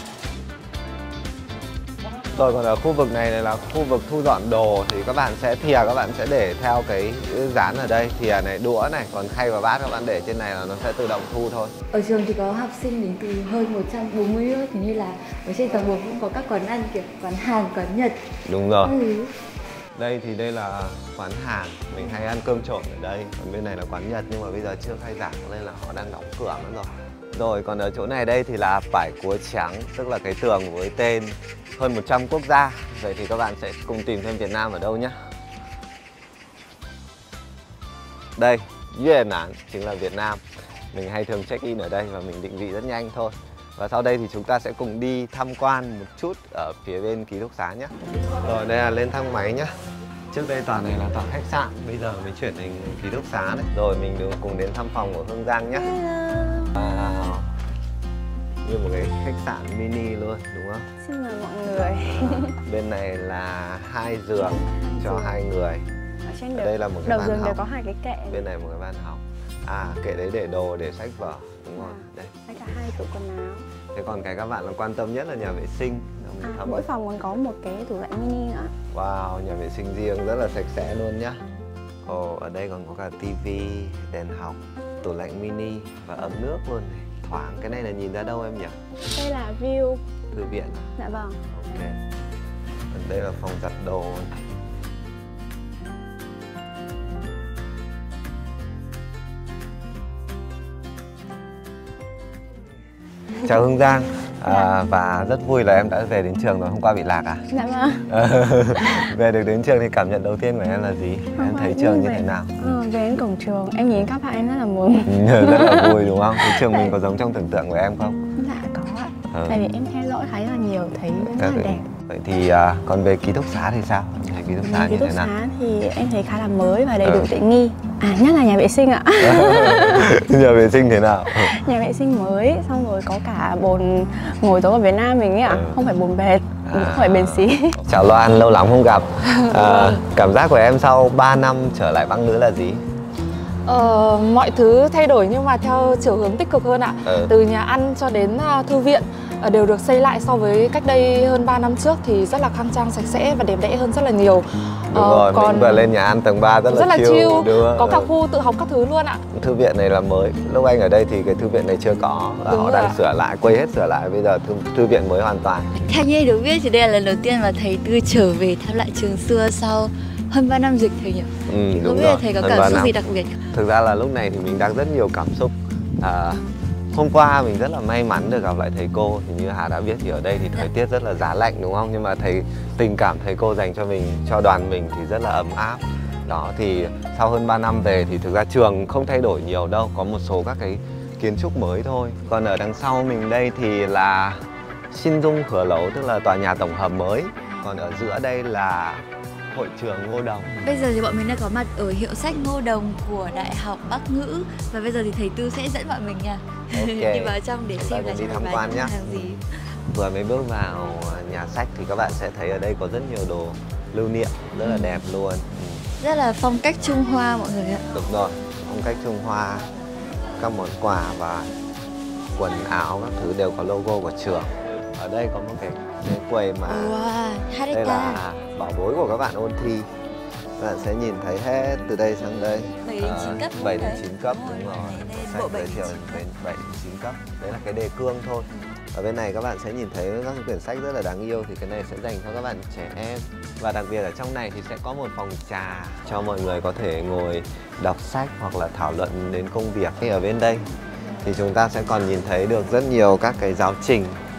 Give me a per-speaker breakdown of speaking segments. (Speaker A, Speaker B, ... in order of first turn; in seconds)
Speaker A: 2.4-11.7, 18.5-19.0, 19.9-35.2, 38.4-40.4, 40.9-49.7, 50.3-56.0, 56.7-57.5, 58.6-60.9, 62.1-65.9, 66.5-67.6, 68.3-72.4, 73.9-76.9, 78.9-81.4, 82.0-88.8, 90.3-91.0, 91.5-92.0, 92.9-94.3, 103.4-107.5, 108.1-112.8, 115.1-118.2, 119.3-119.6, 121.2-125.3, 127.0-127.3, 129.2-131.6, 135.5-135.8, 136.6-142.8, 147.0-147.3, 154.9-158.1, 159.3-165.9, 171.5-173.0, 173.5-194.4, 194.9-200.6, 206.7-209.3, 209.9-215.9, 217.9-219.7, 220.4-221.5, 222.3-227.0, 227.7-229.9, 230.6-250.7, 251.2-254.2
Speaker B: 11.9-18.2, 18.8-19.3, 55.9-56.7, 165.9-173.4, 197.4-197.8, 200.6-209.4, 214.6-215.0, 216.0-217.8, 226.7-228.2, 232.8-236.2
Speaker C: 61.0-62.6, 64.6-65.5, 66.2-68.5, 71.8-73.7, 76.4-78.7, 89.1-90.0, 91.0-91.4, 107.5-108.1, 111.4-116.9, 118.4-121.9, 124.6-130.2, 131.3-137.8
Speaker D: 139.5-140.0, 143.7-155.9, 156.7-159.2, 162.5-163.0